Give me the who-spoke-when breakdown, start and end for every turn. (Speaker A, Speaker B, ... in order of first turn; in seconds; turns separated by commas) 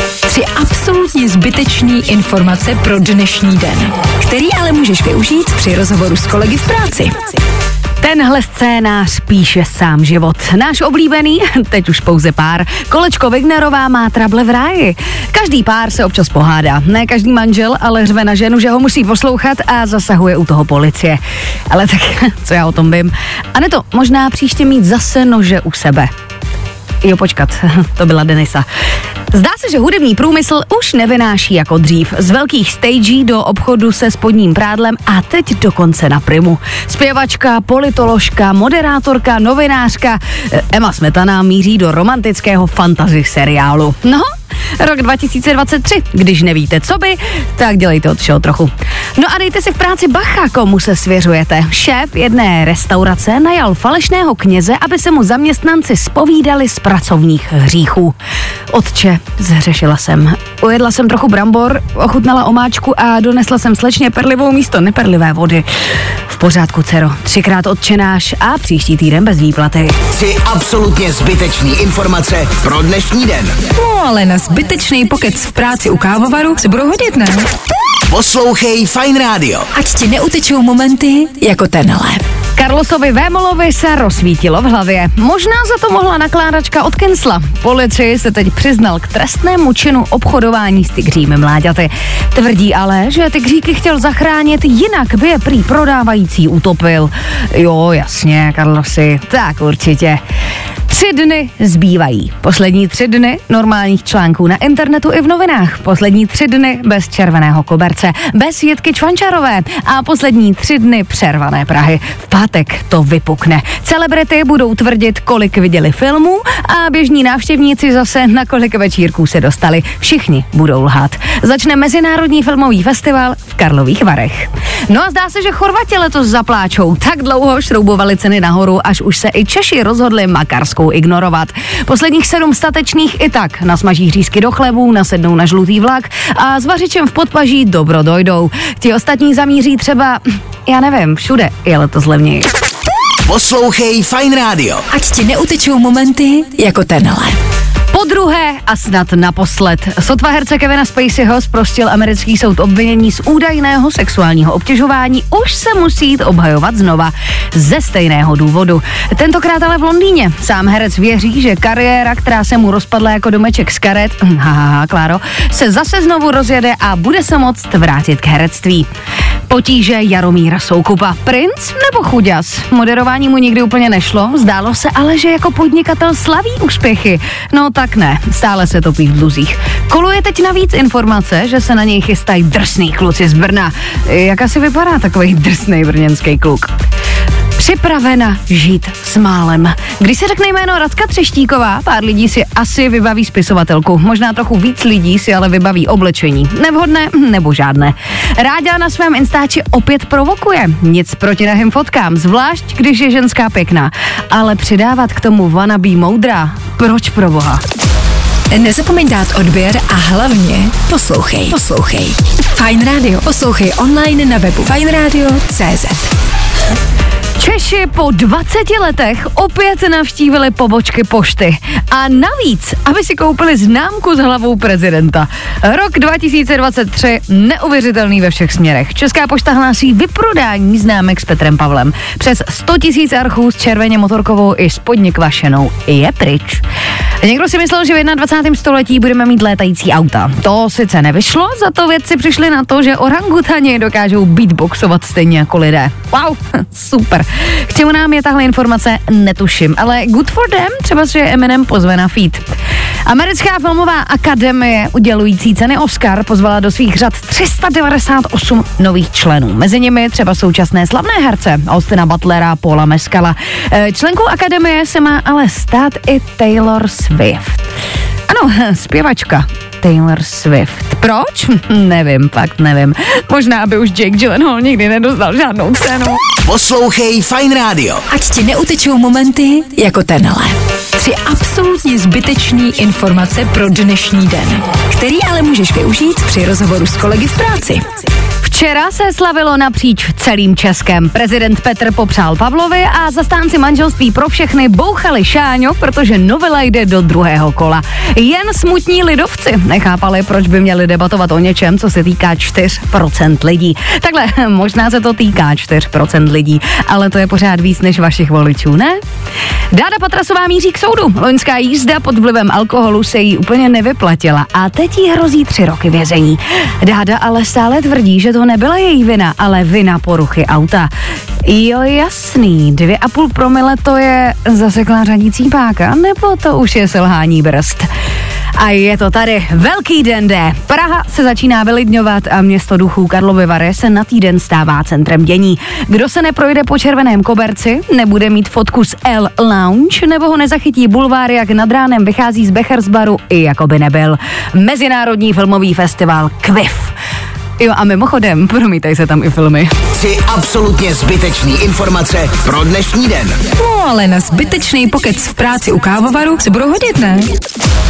Speaker A: 0.3-7.4, Speaker B: 8.0-26.1, Speaker B: 27.0-28.7, Speaker B: 29.3-58.1, Speaker B: 58.7-65.7, Speaker B: 66.3-70.0, Speaker C: 70.1-73.5, Speaker A: 73.8-77.5, Speaker C: 78.1-79.7, Speaker A: 79.7-82.2, Speaker B: 82.5-100.2, Speaker B: 100.9-142.5, Speaker C: 143.2-144.8, Speaker A: 144.9-147.4, Speaker B: 147.9-168.9, Speaker B: 169.5-186.7, Speaker B: 187.6-207.6, Speaker A: 208.5-216.1, Speaker B: 217.4-236.6, Speaker B: 237.2-252.4, Speaker B: 253.0-267.6, Speaker B: 268.3-276.2, Speaker C: 276.4-278.0, Speaker A: 278.1-287.9, Speaker B: 288.4-309.0, Speaker B: 309.7-320.9, Speaker B: 321.4-327.9, Speaker B: 328.6-346.9, Speaker B: 347.6-349.7, Speaker C: 349.9-353.4, Speaker A: 353.6-357.3